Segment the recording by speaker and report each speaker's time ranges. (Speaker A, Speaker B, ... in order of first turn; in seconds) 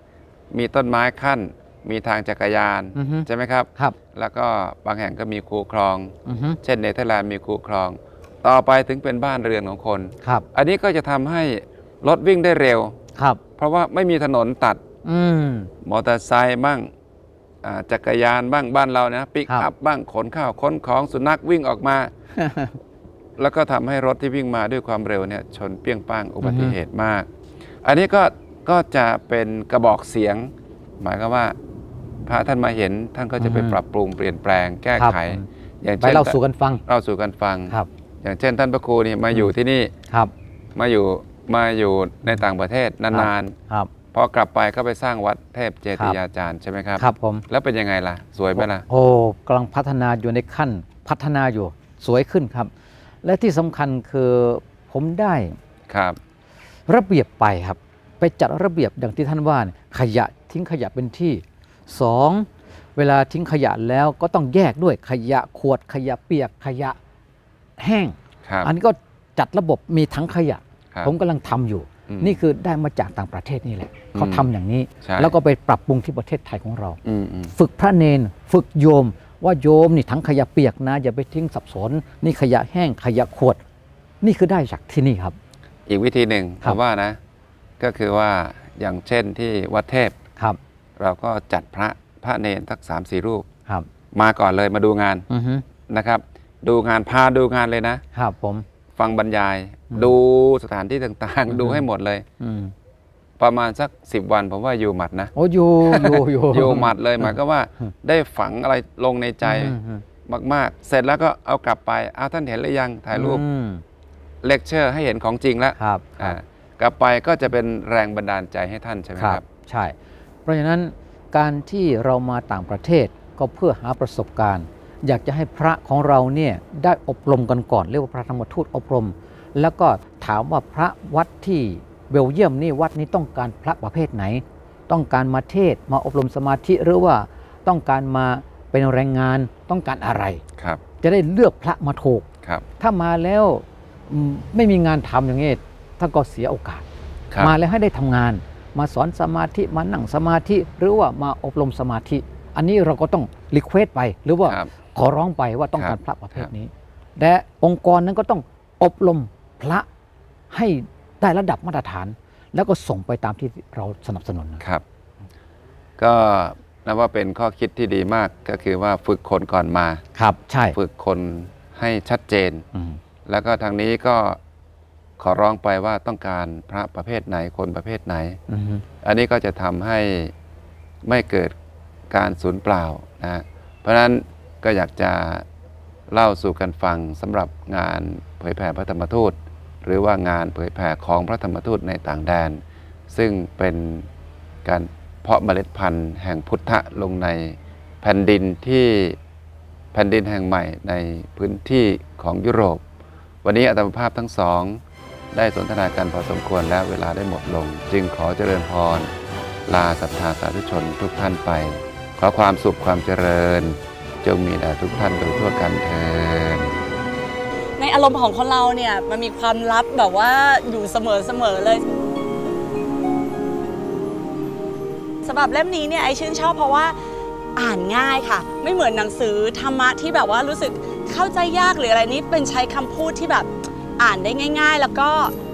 Speaker A: 0.5-13.0, 13.6-14.8, 15.8-16.9, 17.6-22.1, 23.4-27.3, 27.8-31.6, 32.3-39.9, 40.8-43.5, 44.1-48.9, 55.9-56.2, 68.5-68.7, 72.1-72.4, 74.1-74.5, 75.0-75.3, 77.0-77.5, 85.9-87.2, 87.8-90.2, 91.0-93.5, 94.1-95.3, 95.9-98.0, 99.0-102.2, 103.4-105.3, 105.8-109.8, 110.3-113.4, 114.4-119.4, 155.8-156.5, 166.0-170.0, 170.7-172.7, 173.3-174.4, 175.2-178.4, 179.0-180.3, 181.1-181.5, 182.1-185.4, 186.1-194.1, 194.7-199.2, 199.9-202.8, 203.4-204.8, 205.3-209.1, 209.7-216.8
Speaker B: 3.0-4.0, 6.3-6.6, 15.1-15.7, 22.4-22.8, 26.4-26.7, 33.4-33.8, 35.0-35.5, 36.0-36.8, 43.1-43.9, 47.0-47.4, 48.6-52.7, 53.2-55.6, 56.9-67.0, 67.8-77.0, 77.5-83.6, 84.2-85.4, 95.3-95.6, 98.1-98.7, 101.5-101.8, 102.4-102.7, 105.3-107.9, 109.4-110.0, 113.1-113.8, 115.8-116.4, 119.2-120.0, 120.5-140.4, 141.0-142.3, 142.8-146.8, 147.4-159.9, 160.5-164.6, 170.2-170.8, 172.7-173.0, 178.5-178.8
Speaker C: 217.8-221.8, 225.2-227.0, 227.6-235.3